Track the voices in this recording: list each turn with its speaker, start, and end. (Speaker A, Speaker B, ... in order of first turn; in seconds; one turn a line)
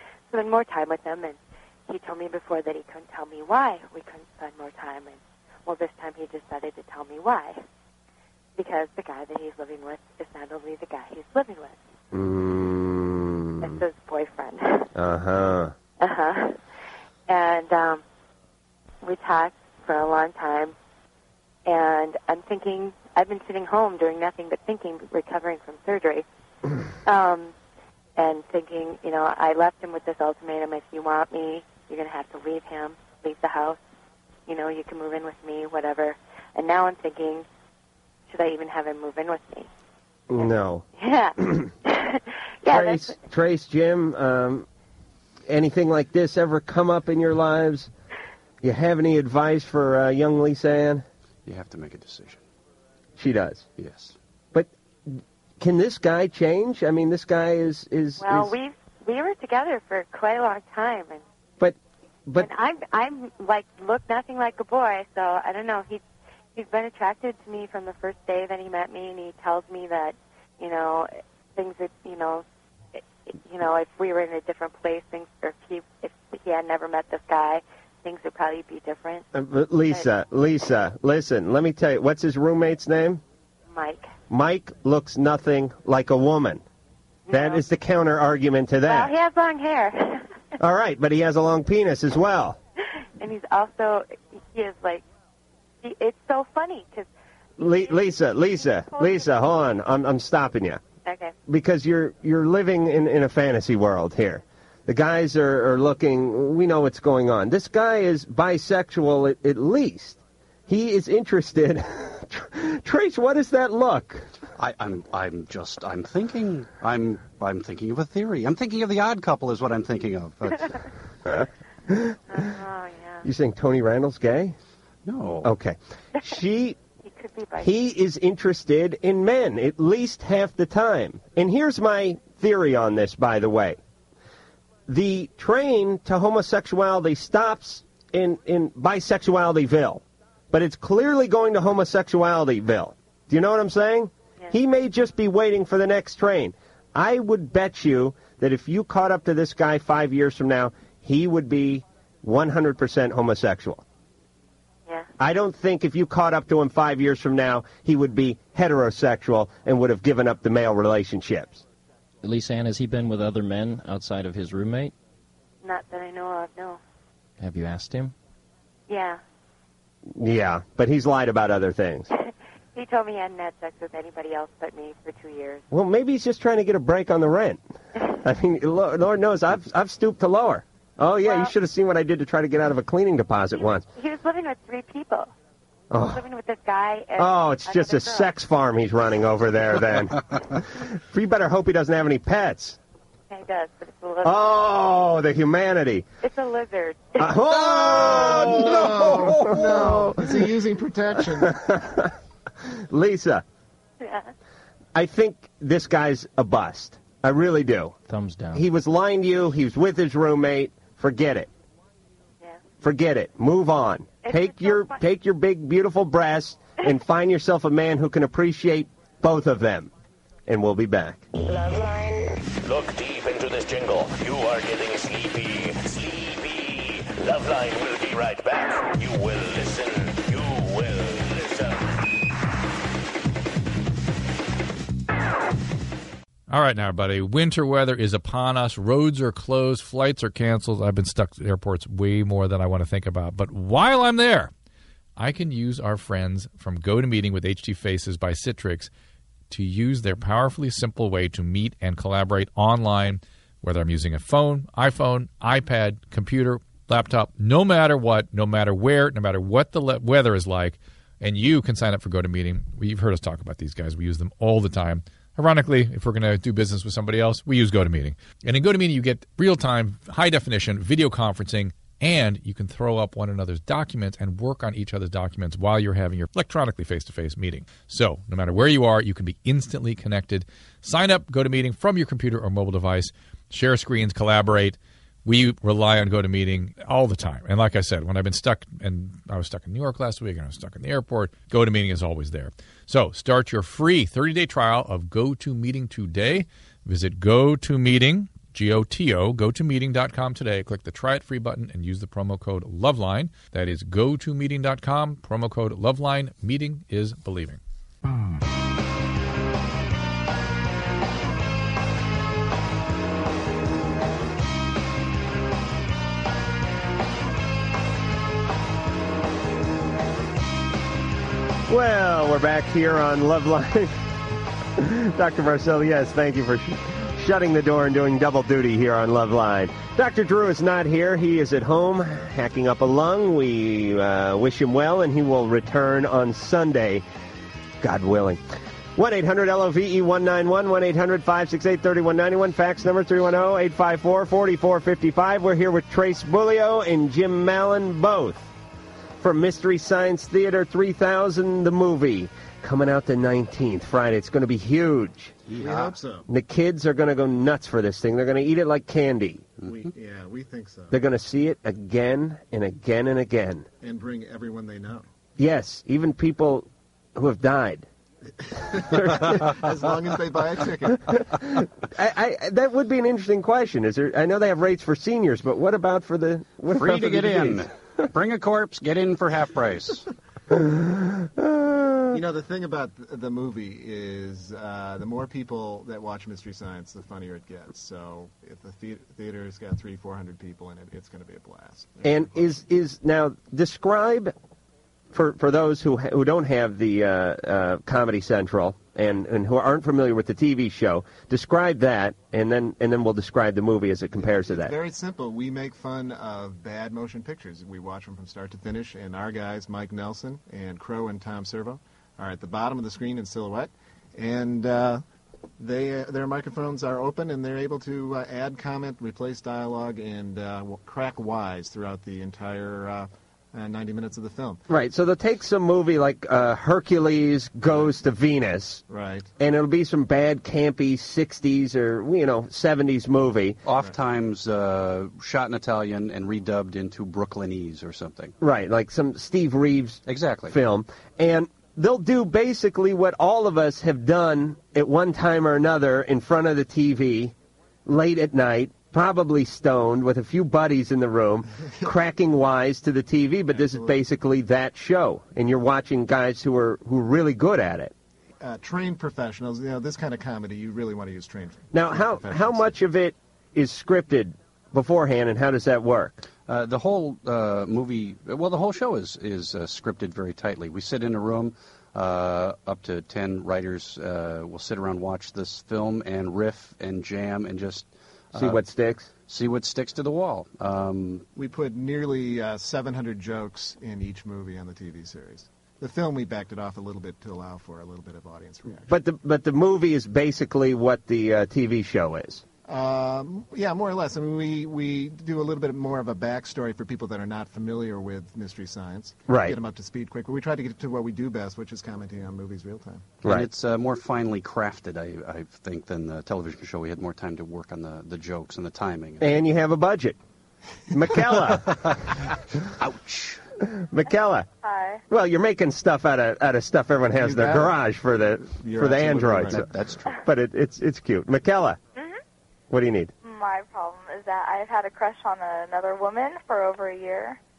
Speaker A: 0.3-7.6
Speaker A: 8.6-11.8
Speaker B: 12.1-13.8
Speaker A: 13.6-14.9
Speaker B: 14.9-15.7
Speaker A: 16.0-16.6
Speaker A: 17.3-18.0
Speaker A: 19.0-20.7
Speaker A: 21.6-26.2
Speaker A: 27.0-27.5
Speaker A: 28.2-33.8
Speaker A: 34.5-37.4
Speaker A: 38.3-39.7
Speaker B: 40.3-40.9
Speaker A: 41.0-43.2
Speaker B: 41.4-41.7
Speaker B: 42.7-44.6
Speaker B: 45.5-47.9
Speaker B: 48.6-51.0
Speaker C: 51.5-52.4
Speaker B: 53.2-53.6
Speaker C: 53.8-54.1
Speaker B: 54.5-58.5
Speaker A: 58.2-61.2
Speaker B: 61.6-62.5
Speaker A: 62.4-66.0
Speaker A: 66.5-79.3
Speaker B: 79.3-83.2
Speaker A: 83.7-84.1
Speaker B: 84.3-86.6
Speaker A: 87.3-87.6
Speaker B: 87.3-89.1
Speaker A: 88.8-90.2
Speaker B: 90.6-92.6
Speaker A: 93.2-95.0
Speaker A: 95.8-97.1
Speaker B: 97.6-100.8
Speaker A: 97.6-97.9
Speaker A: 98.9-99.3
Speaker A: 101.0-101.3
Speaker B: 101.5-114.3
Speaker C: 114.6-120.8
Speaker B: 121.3-122.2
Speaker A: 122.3-123.2
Speaker B: 123.2-124.5
Speaker C: 125.0-125.5
Speaker B: 125.4-126.8
Speaker A: 127.0-127.7
Speaker B: 127.6-133.8
Speaker B: 134.9-153.8
Speaker B: 155.2-161.6
Speaker D: 162.2-164.9
Speaker A: 165.6-166.8
Speaker D: 167.4-168.1
Speaker A: 168.9-169.2
Speaker B: 170.1-172.1
Speaker A: 172.1-175.6
Speaker B: 175.7-183.8
Speaker A: 183.9-185.3
Speaker B: 185.9-186.2
Speaker A: 186.0-188.3
Speaker B: 187.2-192.8
Speaker A: 193.3-194.4
Speaker B: 194.2-196.1
Speaker A: 196.2-197.4
Speaker B: 197.2-200.5
Speaker E: 197.8-201.6
Speaker B: 201.4-203.4
Speaker A: 204.0-204.3
Speaker B: 204.9-207.9
Speaker D: 208.1-208.6
Speaker B: 208.5-211.5
Speaker B: 212.8-219.9
Speaker A: 214.2-215.0
Speaker B: 220.5-221.2
Speaker F: 222.6-232.0
Speaker G: 236.5-244.5
Speaker G: 245.2-248.9
Speaker G: 249.5-307.6
Speaker B: 321.7-323.9
Speaker B: 324.8-337.0
Speaker B: 337.8-338.4
Speaker B: 338.9-348.5
Speaker B: 349.2-355.4
Speaker C: 355.5-355.9
Speaker E: 355.6-356.3
Speaker B: 356.3-359.5
Speaker C: 359.6-359.9
Speaker E: 359.6-360.9
Speaker B: 360.9-363.7
Speaker E: 363.8-365.1
Speaker B: 365.4-367.9
Speaker E: 368.4-371.2
Speaker B: 368.9-369.4
Speaker B: 371.1-377.6
Speaker C: 376.7-380.1
Speaker B: 380.5-382.2
Speaker E: 382.1-392.5
Speaker B: 392.0-394.3
Speaker B: 395.1-404.7
Speaker E: 404.2-415.0
Speaker E: 415.6-424.6
Speaker B: 424.7-428.8
Speaker E: 428.9-429.3
Speaker B: 429.4-433.6
Speaker C: 433.6-438.3
Speaker B: 438.4-447.3
Speaker C: 440.1-440.6
Speaker B: 447.9-457.9
Speaker E: 453.5-454.0
Speaker E: 458.4-462.7
Speaker B: 461.7-466.2
Speaker C: 466.5-478.6
Speaker B: 478.3-479.1
Speaker C: 479.3-481.2
Speaker E: 481.3-488.9
Speaker B: 488.9-492.4
Speaker E: 492.7-503.2
Speaker B: 499.3-499.6
Speaker C: 503.2-509.3
Speaker B: 509.2-510.2
Speaker B: 510.9-511.8
Speaker C: 512.8-513.4
Speaker B: 513.8-514.5
Speaker H: 514.6-515.0
Speaker B: 515.1-521.8
Speaker E: 517.2-519.7
Speaker C: 519.5-520.2
Speaker B: 522.7-523.1
Speaker H: 523.2-527.4